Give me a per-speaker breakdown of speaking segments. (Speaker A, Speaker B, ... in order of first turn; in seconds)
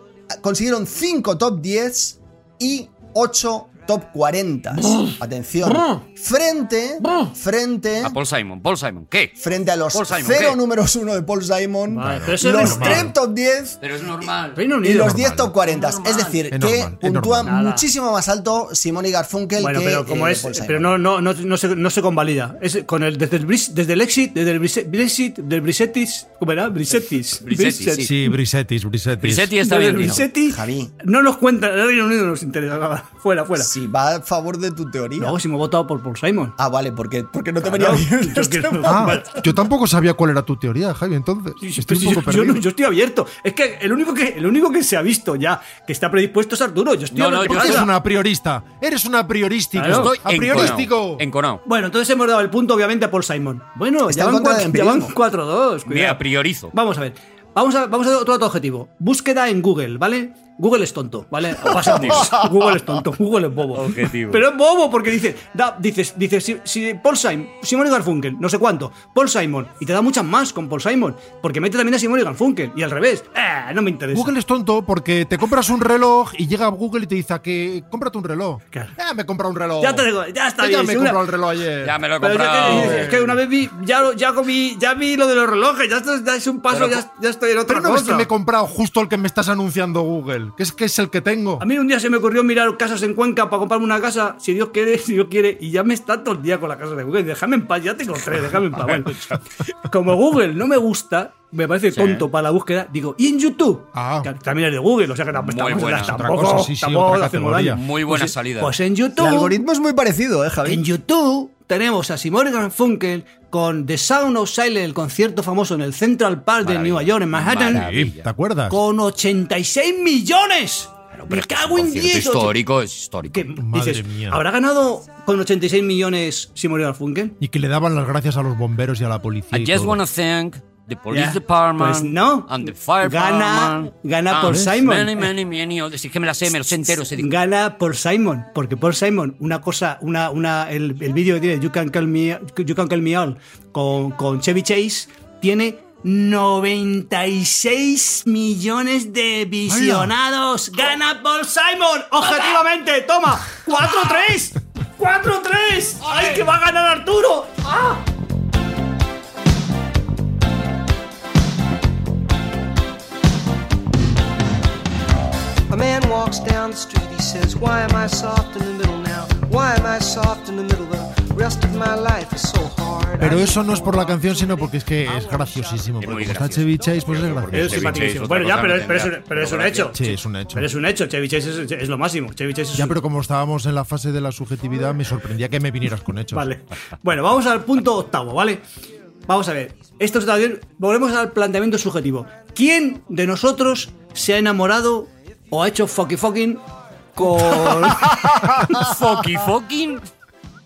Speaker A: 0.4-8.2, 9.4-13.8, 14.8-21.0, 30.1-30.9, 33.6-35.4, 36.6-39.3, 54.1-55.1, 109.2-110.8
Speaker B: 8.0-9.4, 9.9-10.6, 13.8-14.6, 15.6-16.4, 27.4-28.1, 29.2-30.2, 47.1-47.9, 49.8-51.6, 55.9-56.7, 61.7-62.3, 63.7-64.4, 81.8-83.1, 86.7-87.0, 98.8-99.4, 101.9-102.3, 105.4-106.2, 107.7-108.7, 116.6-118.3, 121.1-123.4, 129.5-137.3, 176.0-180.0, 198.6-200.0
Speaker C: 11.9-13.1, 14.5-15.2, 17.4-17.8, 19.6-28.3, 29.6-33.7, 35.2-36.5, 37.6-39.4, 41.6-47.9, 49.8-50.6, 51.6-74.3, 79.8-81.2, 82.2-88.3, 91.6-99.2, 99.9-109.6, 110.6-117.8, 118.7-122.6, 123.3-127.3, 131.1-135.3, 136.9-158.0, 177.5-183.0, 186.3-188.6, 189.3-196.6, 197.2-198.9
Speaker D: 12.0-13.1, 15.0-15.5, 16.5-17.5, 28.0-29.5, 38.8-42.6, 47.4-51.2, 74.1-82.0, 82.6-83.4, 87.7-91.7, 103.9-104.3, 106.0-107.8, 117.6-118.8, 123.6-124.4, 127.4-130.0, 134.4-134.7, 149.7-150.1, 173.2-178.1, 179.9-180.7, 182.7-186.5
Speaker E: 165.7-175.7